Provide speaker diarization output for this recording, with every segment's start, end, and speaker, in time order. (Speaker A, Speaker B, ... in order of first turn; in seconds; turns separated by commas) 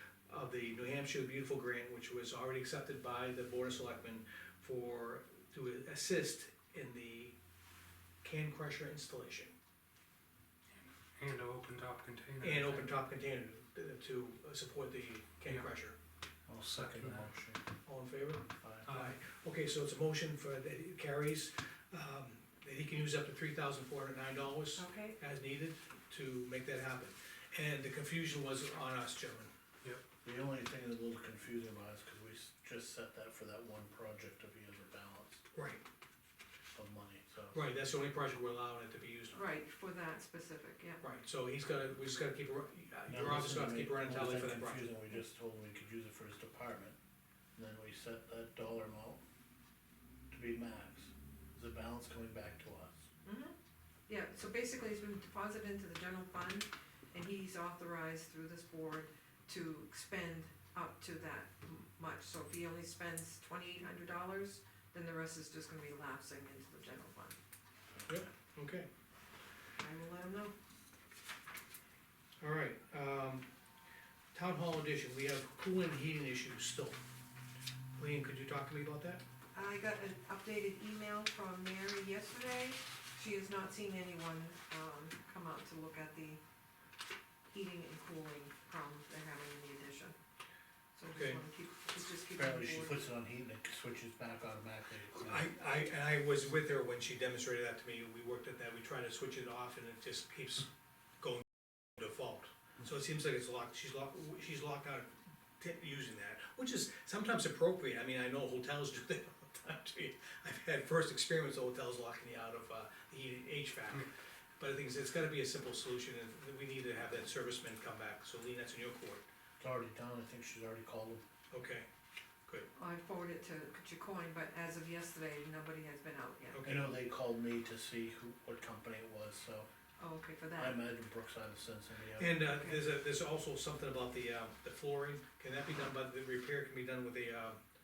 Speaker A: 0.3-7.3, Speaker A: 8.2-9.5, Speaker B: 11.2-12.9, Speaker A: 12.4-15.9, Speaker C: 16.5-17.6, Speaker B: 16.6-17.3, Speaker A: 17.9-29.5, Speaker C: 18.6-18.9, Speaker B: 18.9-19.1, Speaker D: 24.8-25.2, Speaker C: 30.2-35.4, Speaker A: 35.5-35.8, Speaker C: 36.7-37.6, Speaker A: 37.5-39.4, Speaker D: 39.3-41.0, Speaker A: 41.0-44.9, Speaker C: 43.1-47.0, Speaker C: 47.5-49.2, Speaker C: 50.3-53.0, Speaker D: 53.2-53.5, Speaker D: 54.1-67.4, Speaker C: 67.9-68.2, Speaker A: 68.1-68.9, Speaker D: 69.8-70.5, Speaker A: 72.4-73.5, Speaker A: 74.3-77.0, Speaker A: 78.0-79.2, Speaker D: 79.5-86.4, Speaker D: 87.5-90.2, Speaker D: 90.9-93.1, Speaker A: 91.1-91.4, Speaker C: 92.3-95.5, Speaker A: 95.2-100.7, Speaker A: 101.2-105.1, Speaker A: 105.6-114.1, Speaker A: 114.6-119.2, Speaker C: 119.6-121.2, Speaker A: 121.5-121.8, Speaker D: 122.8-126.6, Speaker A: 126.5-126.9, Speaker C: 126.6-129.7, Speaker D: 130.0-130.8, Speaker C: 130.6-132.4, Speaker A: 132.2-137.6, Speaker D: 132.4-132.8